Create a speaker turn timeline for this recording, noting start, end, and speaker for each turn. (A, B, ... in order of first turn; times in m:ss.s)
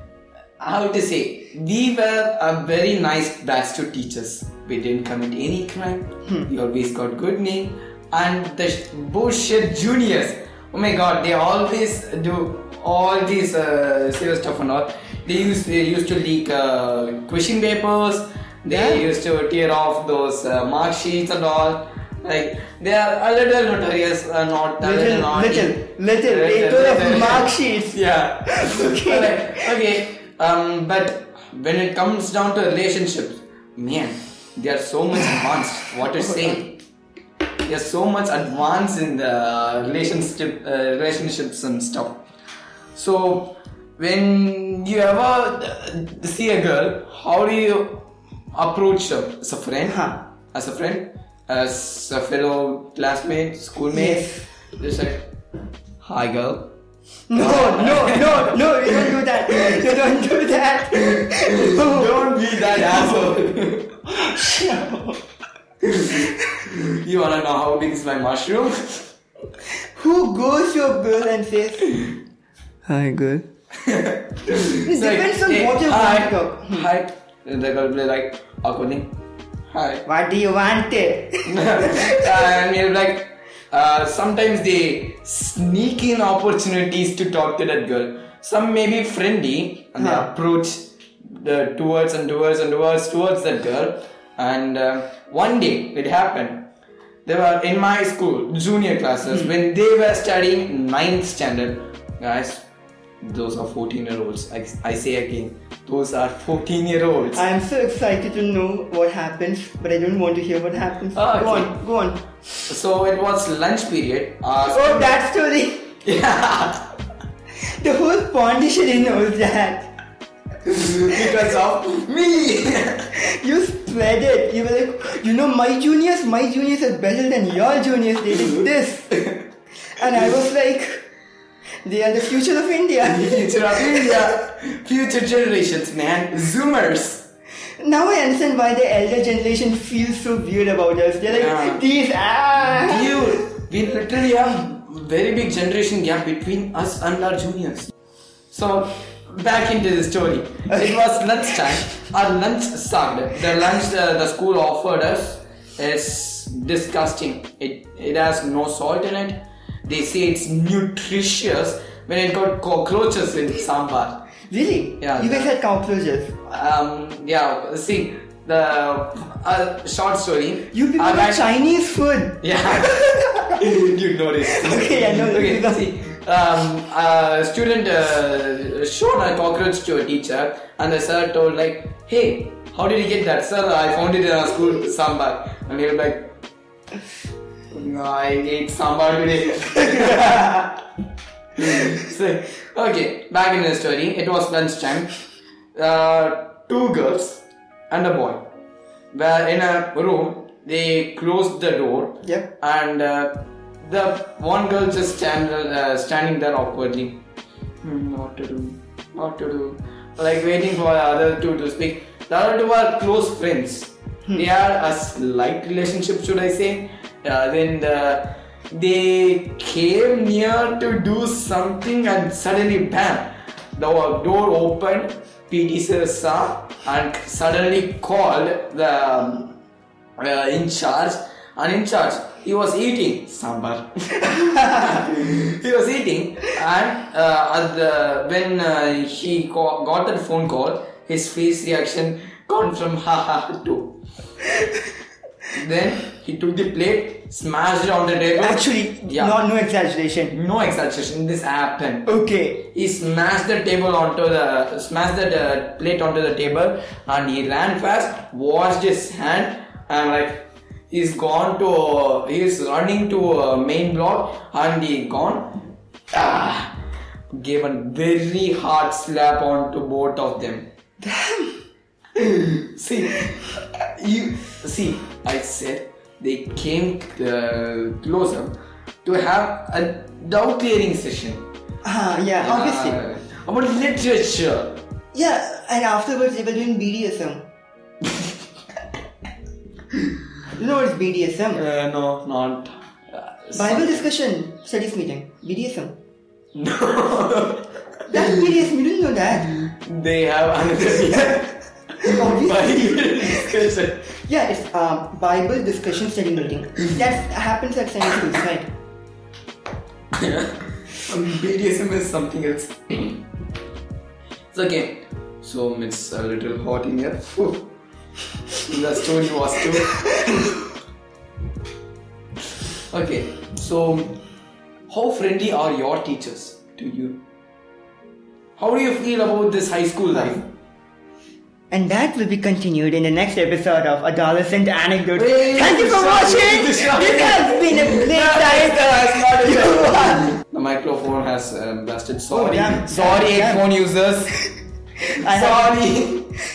0:00.6-0:36.8 A
0:18.7-0:19.0 B
0:24.8-0:29.7 B
0:36.3-0:36.6 B
0:37.6-0:42.2 A
0:42.9-0:50.0 A
0:49.9-0:50.2 B
0:50.5-0:55.3 A
0:53.9-0:54.5 B
0:56.0-0:56.8 A
0:57.3-1:03.3 B
0:57.4-0:59.9 A
1:01.0-1:04.1 A
1:04.2-1:05.2 B
1:05.8-1:09.1 A
1:10.0-1:12.0 B
1:12.9-1:13.5 B
1:13.8-1:19.1 A
1:14.6-1:16.9 B
1:19.7-1:20.0 A
1:20.1-1:22.5 B
1:21.5-1:36.6 A
1:30.0-1:30.3 B
1:37.3-1:42.7 A
1:43.2-1:47.4 A
1:47.3-1:52.2 B
1:51.2-1:51.8 A
1:52.7-1:55.1 A
1:54.6-1:55.9 B
1:56.0-1:56.9 A
1:57.7-1:59.9 B
2:00.6-2:03.1 A
2:03.1-2:09.2 B
2:09.9-2:11.0 B
2:11.8-2:14.2 B
2:13.0-2:17.3 A
2:17.8-2:23.5 B
2:21.3-2:21.8 A
2:22.6-2:27.9 A
2:28.5-2:44.3 A
2:44.5-2:46.3 B
2:45.0-2:45.5 A
2:46.5-2:51.4 A
2:50.7-2:53.6 B
2:52.4-3:06.4 A
2:54.5-2:55.8 B
3:07.7-3:10.8 A
3:11.6-3:15.1 A
3:15.8-3:18.5 A
3:19.1-3:27.2 A
3:27.8-3:49.5 A
3:50.2-4:04.0 A
4:05.5-4:09.4 A
4:08.4-4:10.4 B
4:10.3-4:12.1 A
4:12.1-4:12.7 B
4:12.7-4:26.8 A
4:27.3-4:30.7 A
4:31.0-4:31.6 B
4:32.2-4:41.5 A
4:41.8-4:43.0 B
4:42.4-4:44.8 A
4:45.1-4:47.4 B
4:50.5-4:51.6 B
4:51.5-4:54.0 A
4:53.6-4:56.0 B
4:56.5-4:58.5 A
4:58.1-4:59.5 B
4:59.5-5:04.1 A
5:02.0-5:03.5 B
5:04.2-5:08.7 B
5:10.1-5:13.3 A
5:14.5-5:17.7 A
5:18.5-5:20.6 A
5:22.9-5:24.2 A
5:24.9-5:27.2 A
5:28.6-5:30.5 A
5:31.7-5:40.3 B
5:35.2-5:44.4 A
5:42.3-5:43.6 B
5:45.0-5:45.8 B
5:45.2-5:46.3 A